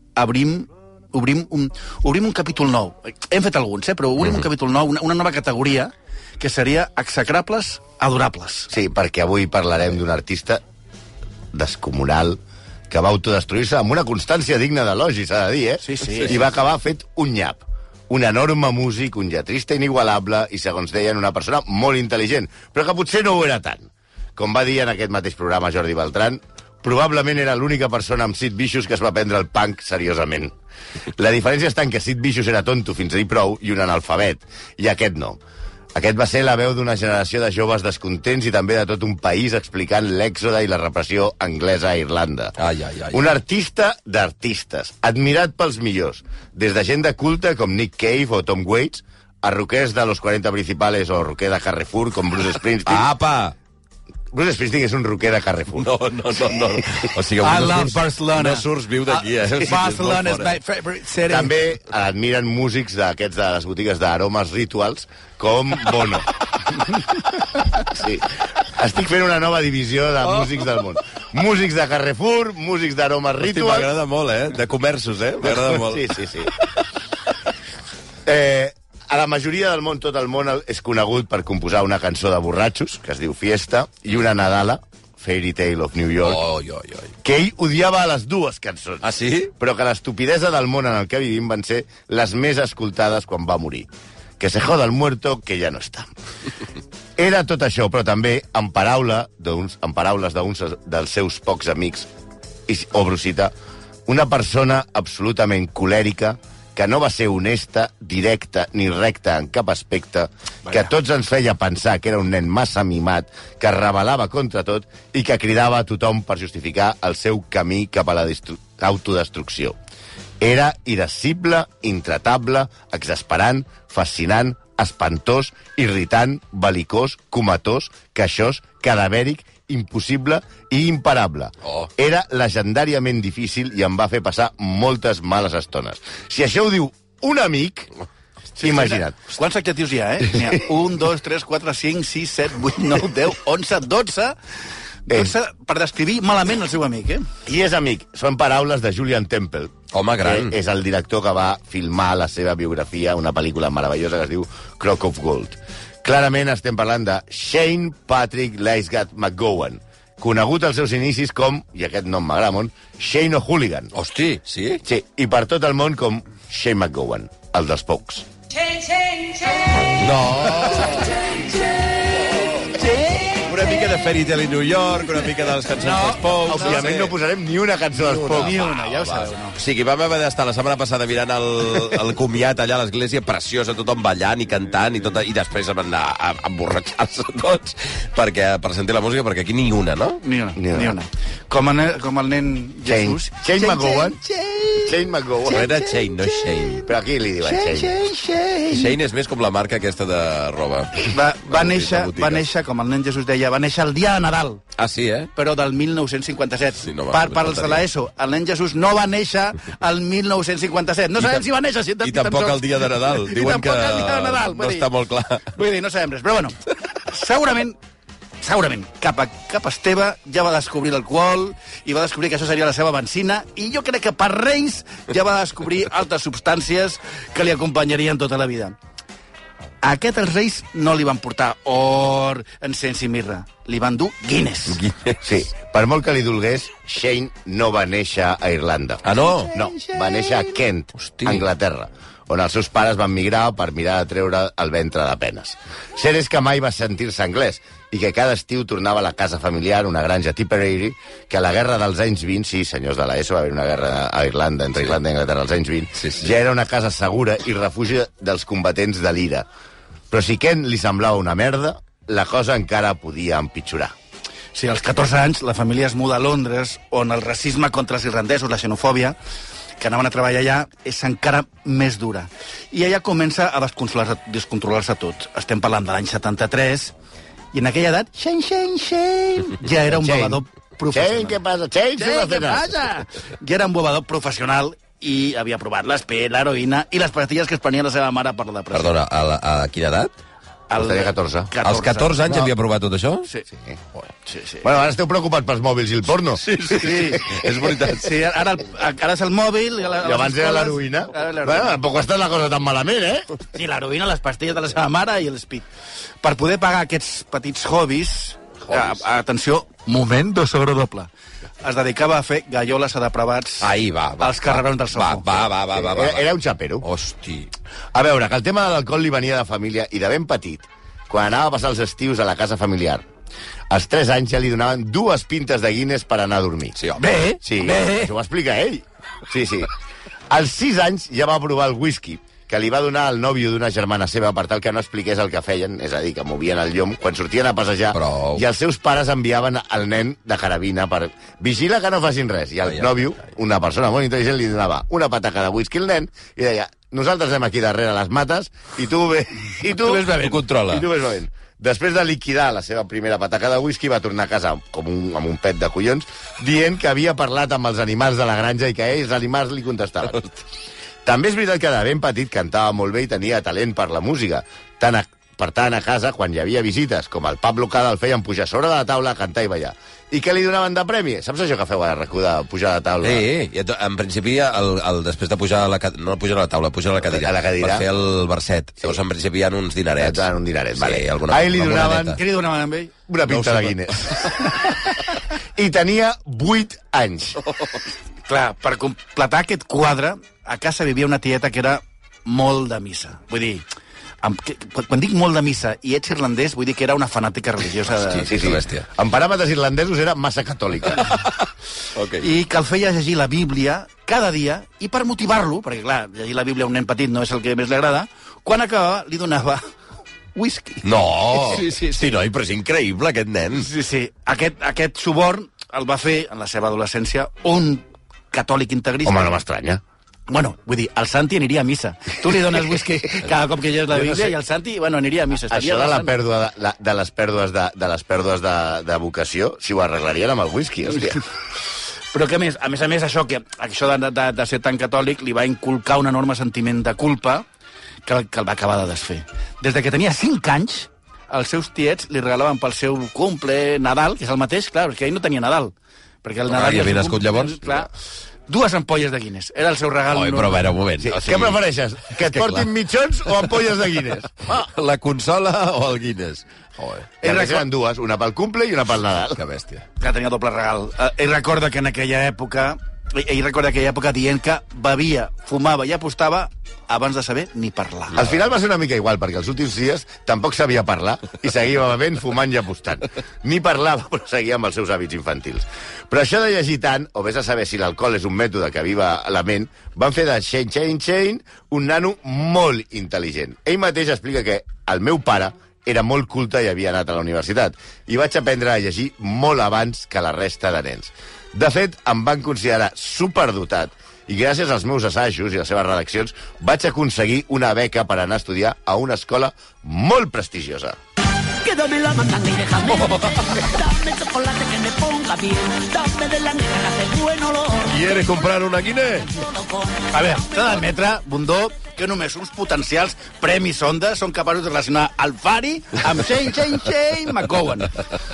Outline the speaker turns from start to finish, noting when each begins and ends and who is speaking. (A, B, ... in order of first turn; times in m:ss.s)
0:00.2-0:08.7 A
0:08.7-0:10.6 B
0:11.5-0:30.5 B
0:15.8-0:16.4 A
0:31.2-0:35.4 B
0:35.9-0:42.5 B
0:42.6-0:43.2 C
0:43.1-0:53.1 B
0:52.8-0:53.5 C
0:54.3-0:55.9 B
0:55.8-1:00.6 C
0:57.4-1:01.6 A
1:01.3-1:06.3 B
1:07.8-1:13.9 B
1:13.4-1:16.8 C
1:15.4-1:16.5 B
1:18.2-1:26.4 B
1:26.2-1:27.1 C
1:27.2-1:33.9 B
1:29.0-1:29.5 C
1:34.4-1:36.1 B
1:37.2-1:42.1 B
1:42.7-1:43.5 B
1:44.1-1:59.8 B
2:00.4-2:17.9 B
2:18.6-2:24.4 A
2:18.6-2:19.2 B
2:25.1-2:27.3 A
2:27.4-2:43.9 B
2:29.9-2:30.6 C
2:43.9-2:44.8 C
2:44.8-2:48.3 B
2:48.7-2:50.0 A
2:49.9-2:51.2 C
2:50.5-2:53.7 A
2:52.2-2:57.1 C
2:55.8-2:56.8 A
2:56.4-2:58.6 B
2:58.0-2:59.6 A
2:58.3-3:10.2 C
3:10.2-3:19.0 A
3:10.6-3:11.0 B
3:12.8-3:14.2 B
3:14.8-3:15.7 B
3:15.5-3:16.9 C
3:16.8-3:18.0 B
3:18.7-3:22.4 C
3:21.0-3:24.6 A
3:24.8-3:25.3 C
3:25.3-3:34.9 A
3:26.8-3:27.8 C
3:31.2-3:31.4 C
3:32.0-3:35.5 C
3:35.5-3:37.8 A
3:38.4-3:48.8 A
3:49.8-3:54.8 A
3:54.7-3:55.2 C
3:55.2-4:19.4 B
3:59.0-3:59.5 C
3:59.1-4:00.6 A
4:01.0-4:01.4 C
4:16.0-4:16.3 C
4:20.1-4:23.9 B
4:24.5-4:29.2 A
4:29.8-4:36.9 A
4:37.5-4:41.4 A
4:39.9-4:42.7 B
4:42.0-4:48.9 A
4:48.7-4:50.1 C
4:50.7-4:52.2 A
4:50.7-4:51.6 B
4:51.6-4:53.3 C
4:54.2-4:54.7 A
4:54.6-4:56.4 B
4:56.4-4:58.2 C
4:56.7-5:01.8 A
5:00.0-5:03.2 B
5:03.5-5:05.7 A
5:06.2-5:11.1 A
5:08.7-5:09.0 C
5:11.6-5:13.7 A
5:13.6-5:16.3 C
5:14.2-5:15.4 A
5:15.7-5:16.8 B
5:16.8-5:17.5 C
5:17.9-5:23.0 B
5:23.7-5:26.8 B
5:26.8-5:27.2 C
5:27.0-5:28.1 A
5:27.4-5:29.7 B
5:30.3-6:00.2 B
5:37.9-5:38.4 C
5:42.7-5:43.0 C
5:49.8-5:50.4 A
5:50.1-5:50.9 C
6:01.0-6:13.3 B
6:13.0-6:20.2 C
6:17.1-6:17.9 B
6:20.0-6:22.2 B
6:20.8-6:22.2 C
6:22.2-6:22.9 A
6:23.1-6:24.5 B
6:23.3-6:24.2 C
6:25.6-6:27.4 B
6:28.3-6:33.6 A
6:34.2-6:38.5 A
6:37.9-6:38.9 C
6:38.3-6:41.1 B
6:40.9-6:41.4 C
6:41.9-6:42.3 C
6:42.2-6:49.6 A
6:50.3-6:52.2 A
6:50.8-6:53.7 C
6:53.5-6:59.4 A
6:59.0-6:59.8 B
7:00.3-7:06.1 A
7:03.9-7:04.4 B
7:05.5-7:11.2 B
7:12.1-7:17.4 A
7:18.0-7:27.9 A
7:26.5-7:27.8 C
7:28.5-7:30.6 A
7:30.1-7:31.6 C
7:31.0-7:34.5 B
7:32.2-7:32.7 C
7:34.5-7:37.1 C
7:37.2-7:37.6 A
7:37.2-7:39.4 B
7:39.4-7:39.8 C
7:40.0-7:48.2 A
7:48.1-8:21.0 B
8:21.6-8:27.9 D
8:21.6-8:27.7 A
8:23.0-8:23.4 C
8:27.8-8:29.4 C
8:29.4-8:29.9 D
8:29.9-8:38.1 A